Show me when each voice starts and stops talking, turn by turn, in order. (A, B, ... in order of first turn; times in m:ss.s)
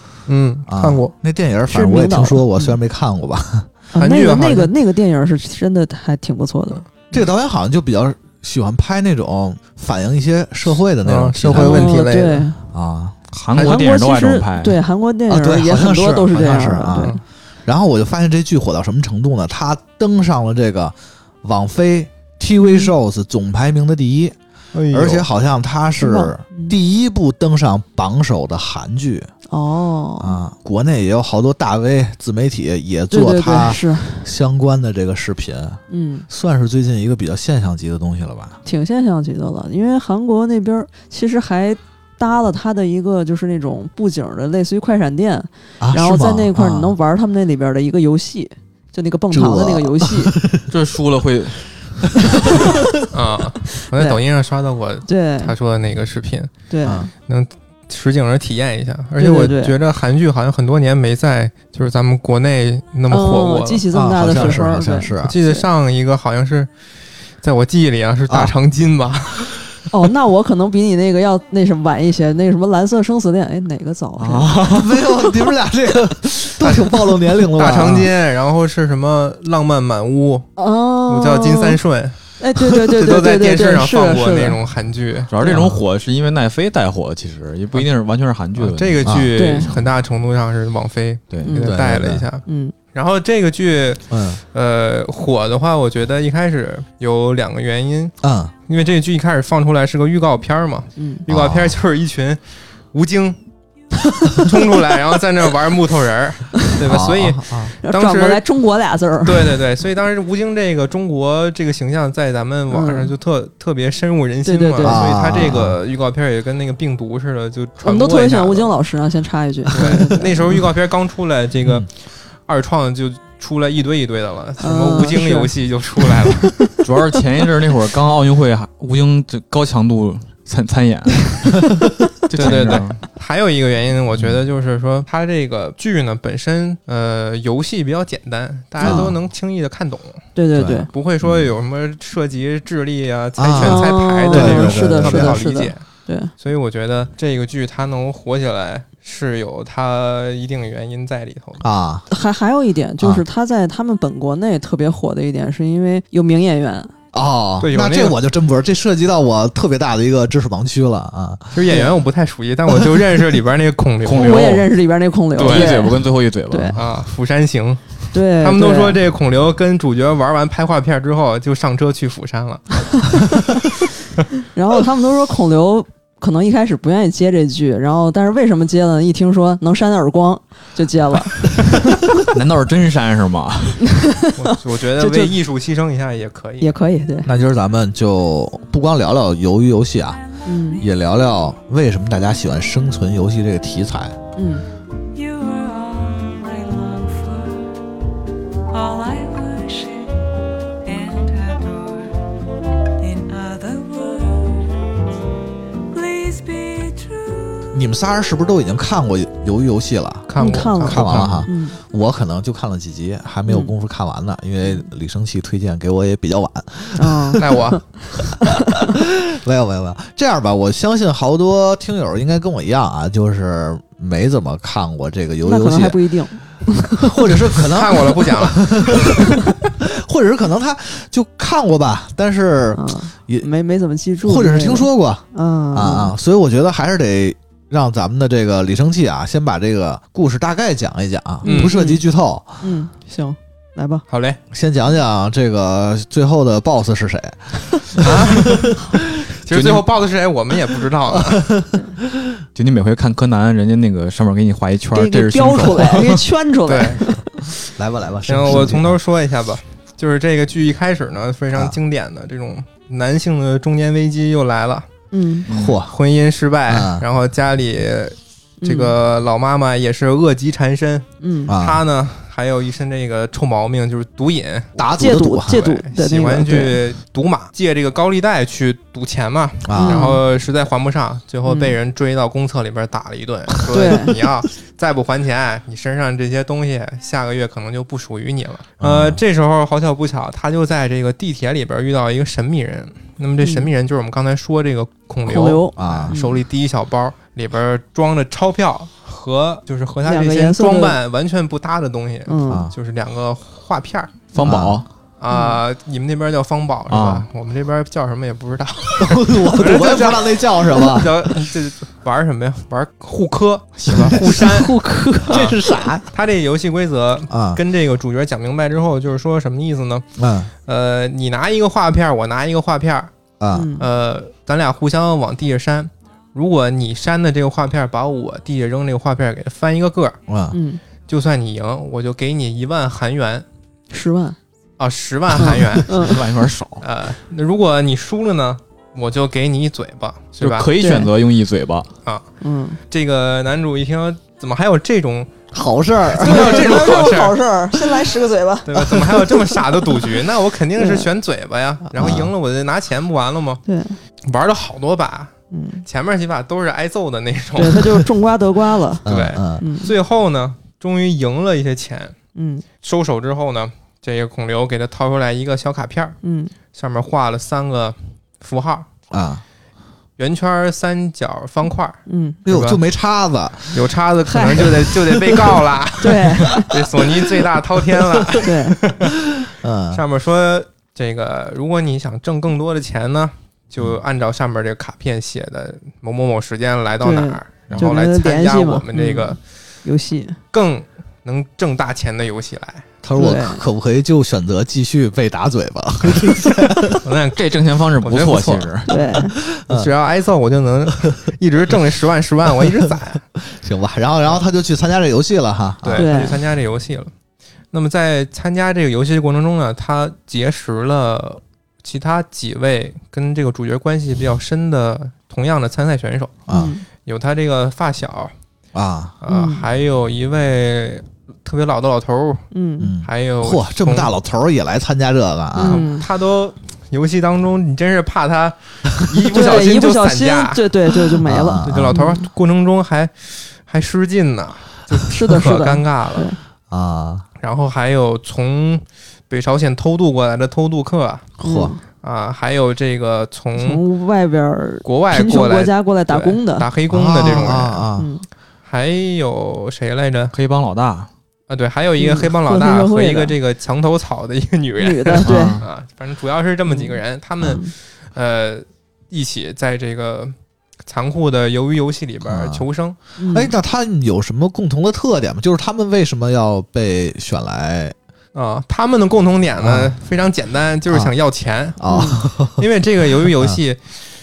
0:00.3-0:01.1 A
0:00.7-0:03.7 B
0:01.7-0:02.8 C
0:03.9-0:06.8 C
0:04.0-0:04.7 A
0:07.1-0:12.0 B
0:11.0-0:12.5 A
0:11.5-0:12.6 C
0:12.7-0:13.2 B
0:13.3-0:14.8 D
0:13.5-0:13.8 A
0:13.6-0:17.2 C
0:15.3-0:24.3 B
0:16.9-0:17.2 A
0:22.6-0:22.9 C
0:24.7-0:25.3 A
0:24.9-0:29.3 B
0:26.0-0:26.7 C
0:29.5-0:30.4 C
0:30.2-0:38.6 B
0:33.1-0:34.2 C
0:35.9-0:36.3 C
0:38.6-0:50.3 C
0:45.8-0:46.9 B
0:49.3-0:50.6 B
0:50.7-0:52.6 D
0:53.1-0:56.5 A
0:53.8-0:54.2 C
0:55.1-0:55.5 C
0:56.7-0:57.1 C
0:56.8-0:57.1 B
0:57.2-1:04.6 A
0:59.2-0:59.7 C
1:03.1-1:05.6 C
1:03.9-1:05.4 B
1:05.2-1:06.7 A
1:07.4-1:09.6 A
1:08.3-1:08.5 B
1:09.9-1:14.5 C
1:14.2-1:15.0 D
1:14.6-1:18.1 B
1:16.6-1:16.9 A
1:17.6-1:20.5 A
1:20.6-1:21.8 C
1:21.1-1:22.2 A
1:22.4-1:24.6 C
1:23.0-1:25.3 A
1:25.3-1:29.8 D
1:25.4-1:25.8 B
1:28.5-1:38.1 A
1:29.0-1:29.3 B
1:29.4-1:29.7 C
1:31.4-1:31.7 C
1:31.6-1:32.3 B
1:32.4-1:32.7 C
1:34.1-1:34.4 B
1:38.2-1:38.5 B
1:38.7-1:42.4 A
1:41.0-1:41.2 C
1:41.3-1:41.8 B
1:42.9-1:43.4 A
1:44.4-1:48.4 A
1:46.8-1:47.7 B
1:47.8-1:49.5 C
1:49.2-1:58.7 A
1:52.7-1:53.1 C
1:54.4-1:55.0 C
1:54.8-1:55.8 B
1:57.8-2:00.6 C
1:59.7-2:01.9 A
2:02.5-2:06.7 A
2:04.6-2:05.5 C
2:06.8-2:11.7 D
2:12.3-2:13.0 D
2:12.3-2:20.3 A
2:18.8-2:19.2 B
2:20.4-2:20.9 C
2:20.5-2:21.3 B
2:20.9-2:25.8 A
2:23.4-2:25.4 B
2:23.6-2:26.3 C
2:26.4-2:31.6 A
2:31.6-2:32.0 B
2:32.1-2:36.9 C
2:37.1-2:41.6 B
2:37.6-2:38.2 A
2:41.5-2:44.6 A
2:44.0-2:44.7 D
2:44.2-2:46.8 C
2:45.4-2:46.8 D
2:45.4-2:45.8 A
2:46.8-2:53.4 A
2:48.1-2:49.0 C
2:54.5-3:01.4 C
3:02.2-3:03.9 D
3:04.0-3:05.3 C
3:04.4-3:06.8 A
3:06.6-3:07.3 C
3:07.2-3:10.2 B
3:10.4-3:10.8 C
3:10.8-3:14.2 B
3:14.4-3:14.6 C
3:15.1-3:17.8 E
3:18.7-3:22.2 E
3:23.0-3:24.9 E
3:25.9-3:27.7 E
3:27.7-3:37.6 B
3:30.3-3:31.4 A
3:30.4-3:31.7 C
3:33.5-3:33.7 C
3:37.0-3:37.8 C
3:37.4-3:37.8 A
3:38.4-3:38.7 C
3:38.6-3:46.0 B
3:45.4-3:47.1 C
3:46.9-3:53.5 B
3:47.6-3:49.1 A
3:52.8-3:56.1 C
3:54.2-4:02.6 B
4:01.4-4:02.0 C
4:01.4-4:01.7 A
4:02.6-4:04.0 C
4:04.1-4:04.4 A
4:04.5-4:08.9 B
4:08.0-4:08.8 A
4:09.3-4:11.5 A
4:09.5-4:09.9 D
4:11.1-4:11.8 B
4:12.5-4:16.2 D
4:14.9-4:17.2 C
4:16.7-4:17.2 A
4:17.8-4:19.0 B
4:18.3-4:24.9 A
4:25.1-4:25.5 C
4:25.5-4:25.8 D
4:25.5-4:25.9 B
4:25.5-4:34.8 A
4:26.7-4:27.0 B
4:28.6-4:28.9 C
4:31.2-4:31.5 C
4:31.5-4:31.8 B
4:34.8-4:35.6 B
4:35.0-4:36.8 C
4:35.4-5:04.2 A
4:39.6-4:40.1 B
4:39.8-4:40.2 C
4:41.4-4:41.8 C
4:43.7-4:44.1 C
4:48.8-4:49.2 B
4:53.4-4:53.7 C
4:55.2-4:56.4 C
4:55.8-4:56.1 B
5:00.0-5:01.0 C
5:02.3-5:02.6 C
5:04.3-5:04.8 D
5:04.4-5:04.8 B
5:05.2-5:15.6 A
5:05.3-5:05.6 C
5:06.9-5:07.2 D
5:09.0-5:11.3 B
5:13.8-5:14.4 D
5:14.4-5:15.5 C
5:15.3-5:16.0 B
5:16.1-5:20.0 A
5:17.3-5:17.6 B
5:20.2-5:20.5 B
5:20.6-5:23.1 A
5:23.4-5:23.7 B
5:23.5-5:23.8 C
5:23.8-5:30.2 A
5:30.3-5:30.6 B
5:30.5-5:30.8 C
5:31.1-5:33.4 A
5:33.9-5:34.4 C
5:34.8-5:36.1 A
5:35.4-5:36.2 C
5:35.9-5:36.8 D
5:36.8-5:40.7 A
5:40.4-5:41.9 D
5:40.8-5:41.1 C
5:42.4-5:42.8 C
5:42.9-5:45.3 A
5:45.5-5:46.8 B
5:46.1-5:47.4 A
5:46.2-5:49.4 C
5:48.6-5:53.6 A
5:50.8-5:51.1 C
5:51.9-5:52.3 B
5:53.6-5:54.0 C
5:54.2-5:55.3 A
5:55.5-5:55.8 C
5:55.8-5:58.0 A
5:57.6-5:59.0 C
5:59.0-5:59.6 B
5:59.0-6:02.2 A
5:59.6-5:59.9 C
6:02.4-6:02.6 C
6:02.8-6:06.2 A
6:06.2-6:06.5 C
6:06.7-6:08.9 A
6:09.1-6:09.4 B
6:10.2-6:12.8 A
6:12.1-6:12.4 C
6:12.4-6:13.9 B
6:13.7-6:19.2 A
6:14.3-6:14.7 C
6:16.0-6:16.7 C
6:18.0-6:18.4 B
6:18.4-6:18.8 C
6:19.6-6:20.0 B
6:19.9-6:29.4 A
6:27.0-6:30.4 C
6:30.5-6:32.8 A
6:33.0-6:37.0 B
6:33.2-6:33.6 C
6:36.2-6:38.9 A
6:37.4-6:38.9 D
6:38.9-6:39.3 C
6:39.6-6:39.9 B
6:39.7-6:43.2 A
6:43.4-6:46.2 B
6:45.8-6:47.1 A
6:46.0-6:46.4 C
6:47.7-6:56.5 A
6:56.5-6:56.7 B
6:56.5-6:56.8 C
6:57.0-6:58.3 A
6:58.7-6:59.2 B
6:59.2-7:02.4 A
6:59.3-6:59.6 C
7:02.5-7:02.9 C
7:02.8-7:05.9 B
7:03.0-7:04.1 A
7:05.5-7:06.0 C
7:05.6-7:10.6 A
7:09.3-7:12.2 C
7:11.2-7:11.9 B
7:11.6-7:16.3 A
7:15.1-7:16.4 C
7:16.7-7:17.2 B
7:17.4-7:21.3 A
7:21.4-7:21.7 B
7:21.4-7:21.8 C
7:22.0-7:23.8 A
7:23.6-7:26.7 C
7:24.8-7:27.8 A
7:26.9-7:28.1 B
7:27.2-7:28.2 C
7:28.6-7:30.3 A
7:30.3-7:31.1 D
7:31.5-7:40.3 A
7:32.0-7:33.3 C
7:34.8-7:35.6 C
7:35.2-7:35.6 D
7:36.7-7:37.7 C
7:40.8-7:43.0 A
7:42.2-7:42.6 B
7:43.2-7:43.5 C
7:43.3-7:47.9 B
7:48.3-7:51.8 A
7:49.6-7:49.9 B
7:51.8-7:52.6 B
7:51.9-7:52.2 C
7:52.5-7:53.9 A
7:53.2-7:53.6 B